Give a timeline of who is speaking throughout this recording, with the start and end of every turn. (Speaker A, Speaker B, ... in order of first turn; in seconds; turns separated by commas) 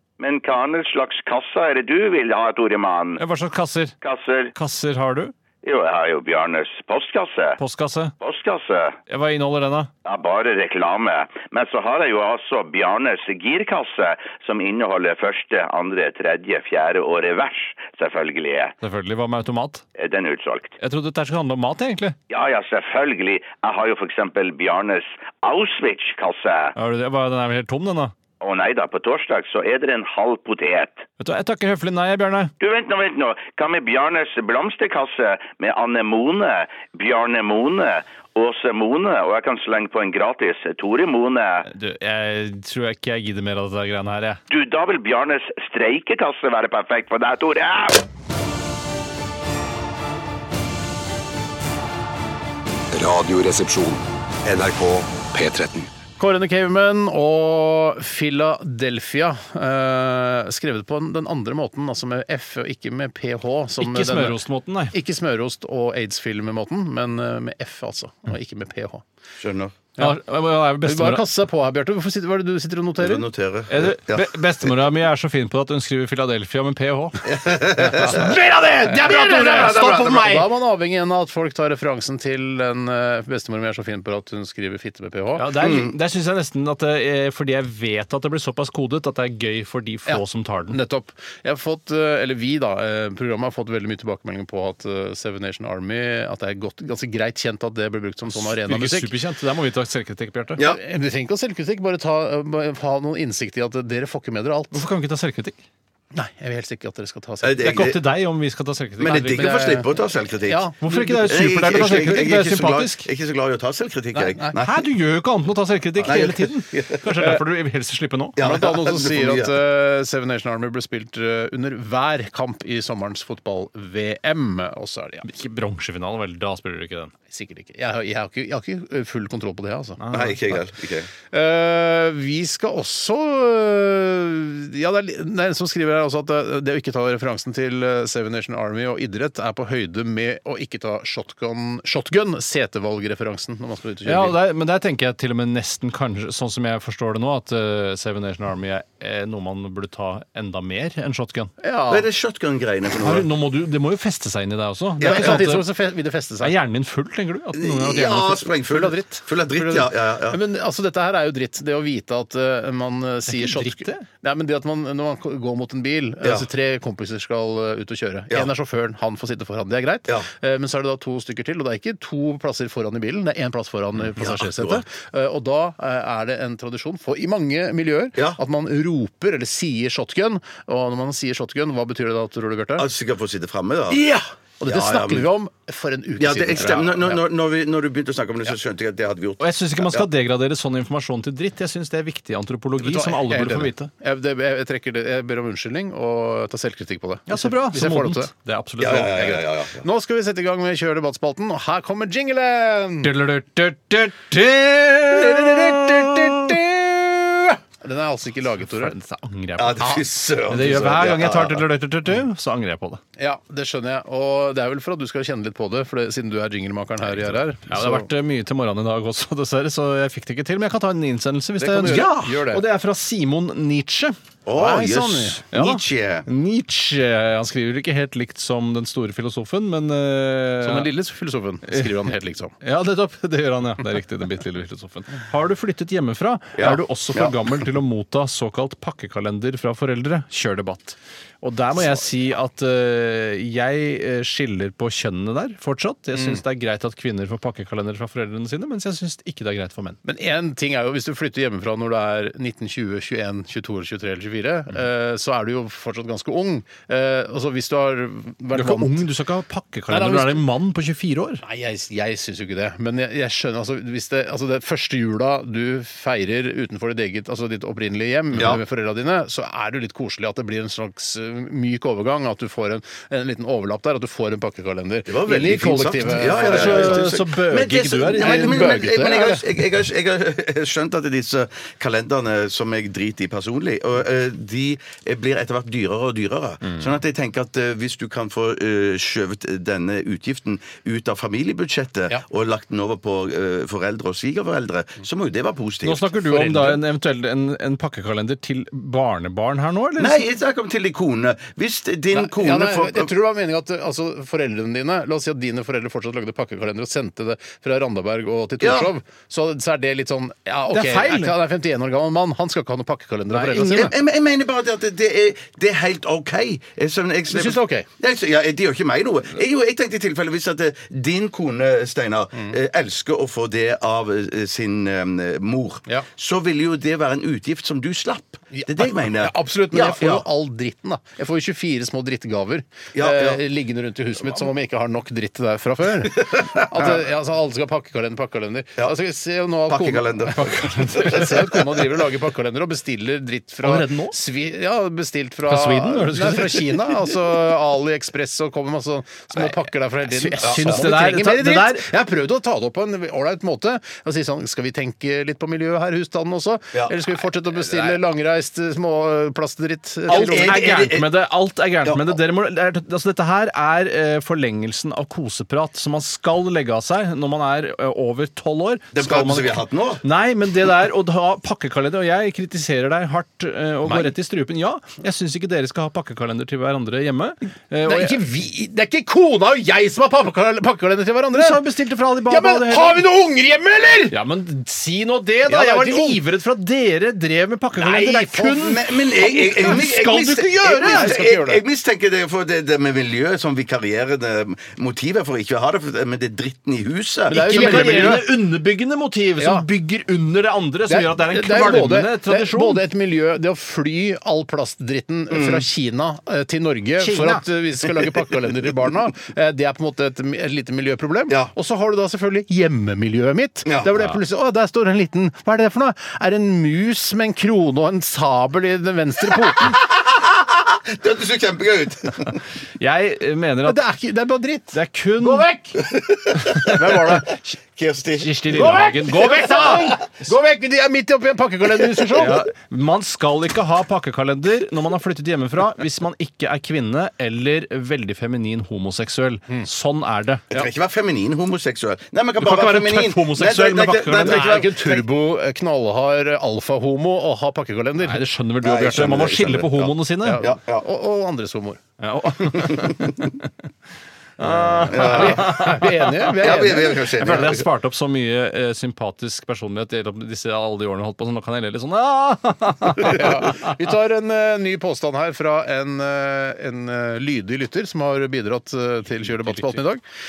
Speaker A: 0.2-3.2, Speaker B: 3.2-3.9, Speaker A: 4.0-4.5, Speaker B: 4.5-5.3, Speaker A: 5.6-7.6, Speaker B: 7.6-8.1, Speaker A: 8.2-9.0, Speaker B: 9.1-9.9, Speaker A: 10.0-18.7, Speaker B: 18.8-19.8, Speaker A: 20.0-20.7, Speaker B: 20.8-22.1, Speaker A: 22.3-26.7, Speaker B: 26.7-28.1, Speaker A: 28.4-31.0, Speaker B: 31.2-32.5, Speaker A: 32.6-41.6, Speaker B: 41.6-44.4, Speaker A: 44.5-48.0, Speaker C: 52.9-55.9, Speaker D: 56.2-69.0, Speaker B: 63.8-64.9, Speaker E: 69.4-69.8, Speaker B: 70.0-71.2, Speaker D: 70.8-73.2, Speaker E: 73.0-74.3, Speaker B: 73.7-77.3, Speaker E: 77.2-78.3, Speaker D: 77.8-85.5, Speaker E: 78.9-80.5, Speaker B: 85.3-90.8, Speaker E: 85.6-85.9, Speaker D: 90.1-99.1, Speaker B: 98.3-100.6, Speaker D: 100.6-104.8, Speaker B: 104.7-105.6, Speaker D: 106.1-107.8, Speaker E: 107.4-108.0, Speaker B: 107.6-109.5, Speaker E: 109.0-114.8, Speaker D: 109.2-109.9, Speaker D: 110.4-112.2, Speaker B: 110.8-113.1, Speaker D: 114.1-114.5, Speaker B: 114.5-118.3, Speaker D: 116.0-116.3, Speaker E: 116.0-117.3, Speaker E: 118.3-119.5, Speaker D: 118.4-125.2, Speaker B: 125.2-127.1, Speaker D: 127.3-130.0, Speaker B: 130.0-130.6, Speaker E: 130.1-131.1, Speaker D: 131.3-144.4, Speaker B: 144.0-151.5, Speaker D: 151.6-152.1, Speaker E: 151.9-153.3, Speaker B: 153.0-155.7, Speaker E: 155.0-155.4, Speaker D: 155.0-156.5, Speaker B: 156.4-158.4, Speaker E: 157.6-160.4, Speaker D: 158.7-182.9, Speaker B: 163.3-164.1, Speaker E: 174.1-174.8, Speaker E: 182.8-184.0, Speaker D: 183.9-187.2, Speaker E: 184.6-185.3, Speaker E: 186.2-190.1, Speaker B: 189.4-193.9, Speaker D: 192.8-198.3, Speaker B: 197.3-199.4, Speaker E: 198.8-199.8, Speaker D: 199.8-203.1, Speaker B: 203.0-206.6, Speaker D: 205.1-208.9, Speaker B: 208.6-213.0, Speaker E: 209.6-211.6, Speaker D: 213.2-218.1, Speaker B: 217.6-224.2, Speaker D: 221.6-222.6, Speaker E: 224.4-226.2, Speaker D: 224.5-225.4, Speaker B: 225.5-230.9, Speaker D: 230.6-232.5, Speaker B: 232.6-250.0, Speaker E: 236.6-237.3, Speaker D: 246.1-246.4, Speaker D: 250.0-259.0, Speaker B: 258.5-261.4, Speaker D: 259.9-260.4, Speaker D: 261.4-277.2, Speaker E: 268.3-268.6, Speaker E: 275.1-296.7, Speaker B: 276.2-278.7, Speaker D: 278.1-279.4, Speaker B: 295.8-300.2, Speaker D: 296.4-296.7, Speaker E: 300.0-303.1, Speaker D: 302.1-313.9, Speaker E: 308.6-308.9, Speaker B: 310.7-311.4, Speaker E: 313.3-330.2, Speaker D: 317.3-317.9, Speaker D: 328.5-360.7, Speaker E: 332.9-333.4, Speaker E: 336.2-337.0, Speaker E: 339.7-341.7, Speaker B: 340.7-341.1, Speaker B: 343.6-344.1, Speaker B: 345.5-347.1, Speaker B: 350.1-351.9, Speaker E: 350.4-350.8, Speaker E: 360.1-361.1, Speaker B: 360.1-378.2, Speaker E: 361.8-362.2, Speaker E: 368.9-370.0, Speaker D: 377.8-381.6, Speaker B: 381.3-383.0, Speaker D: 382.2-384.1, Speaker B: 384.1-391.1, Speaker D: 385.4-386.2, Speaker D: 387.7-390.1, Speaker E: 388.6-398.2, Speaker D: 390.6-391.6, Speaker D: 397.3-398.3, Speaker B: 397.3-402.8, Speaker D: 399.4-399.7, Speaker D: 400.9-419.8, Speaker E: 405.3-405.6, Speaker B: 407.0-407.4, Speaker E: 413.6-413.9, Speaker E: 419.6-422.4, Speaker B: 422.8-423.8, Speaker D: 423.6-425.9, Speaker B: 424.7-425.4, Speaker E: 425.8-427.2, Speaker B: 426.4-426.7, Speaker D: 426.6-427.4, Speaker E: 427.8-428.4, Speaker B: 428.2-429.8, Speaker D: 428.5-432.4, Speaker B: 432.1-440.4, Speaker E: 440.5-445.0, Speaker B: 442.4-444.6, Speaker D: 444.2-448.3, Speaker B: 448.0-450.4, Speaker E: 448.6-450.8, Speaker D: 450.2-451.8, Speaker B: 452.0-453.3, Speaker E: 452.5-453.1, Speaker B: 454.4-456.3, Speaker D: 454.4-457.5, Speaker E: 454.9-455.7, Speaker E: 456.4-457.6, Speaker B: 457.1-463.7, Speaker D: 463.0-470.0, Speaker B: 469.3-469.8